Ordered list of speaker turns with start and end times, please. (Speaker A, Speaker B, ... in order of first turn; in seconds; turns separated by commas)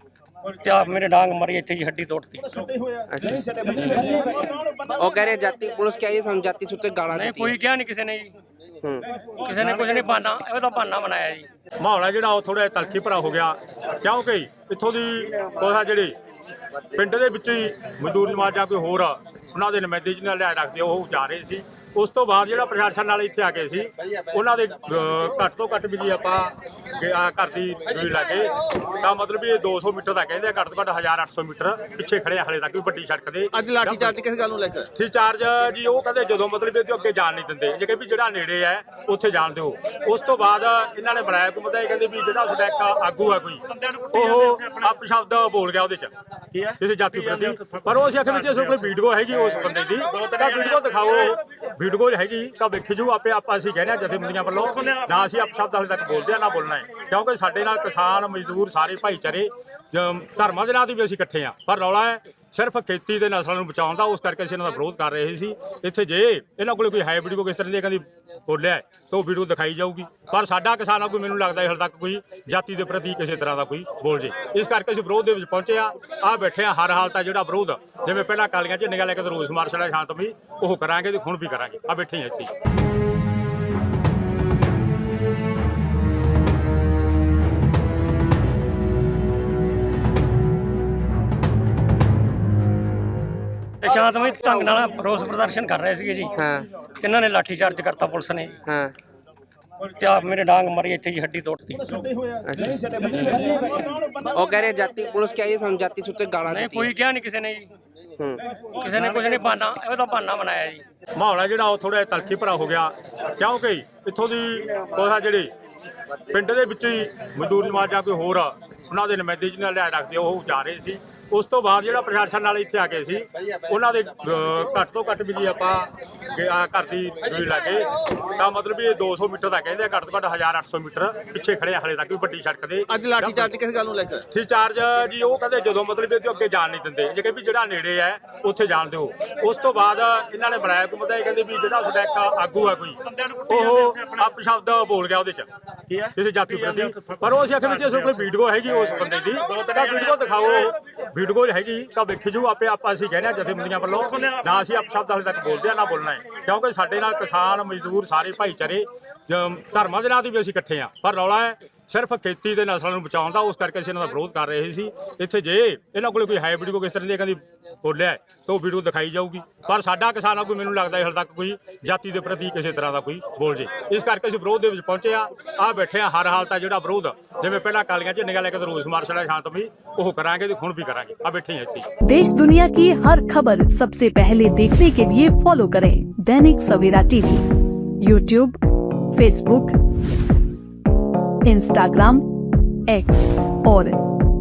Speaker A: 0.6-2.6, Speaker B: 3.1-3.6, Speaker B: 4.9-7.6, Speaker A: 7.1-8.3, Speaker A: 9.3-11.5, Speaker C: 11.8-16.2, Speaker C: 16.8-34.2, Speaker D: 33.5-34.9, Speaker C: 35.0-46.1, Speaker C: 46.7-82.5, Speaker A: 93.8-98.6, Speaker B: 96.4-96.7, Speaker B: 98.7-99.0, Speaker A: 100.0-102.0, Speaker B: 102.4-103.0, Speaker B: 104.2-106.9, Speaker A: 106.5-107.7, Speaker A: 108.7-110.8, Speaker C: 111.2-115.5, Speaker C: 116.1-133.5, Speaker D: 132.9-134.2, Speaker C: 134.3-145.5, Speaker C: 146.0-181.9, Speaker E: 182.1-187.5, Speaker E: 188.0-188.6, Speaker E: 189.1-189.8, Speaker E: 191.4-192.2, Speaker E: 192.9-194.0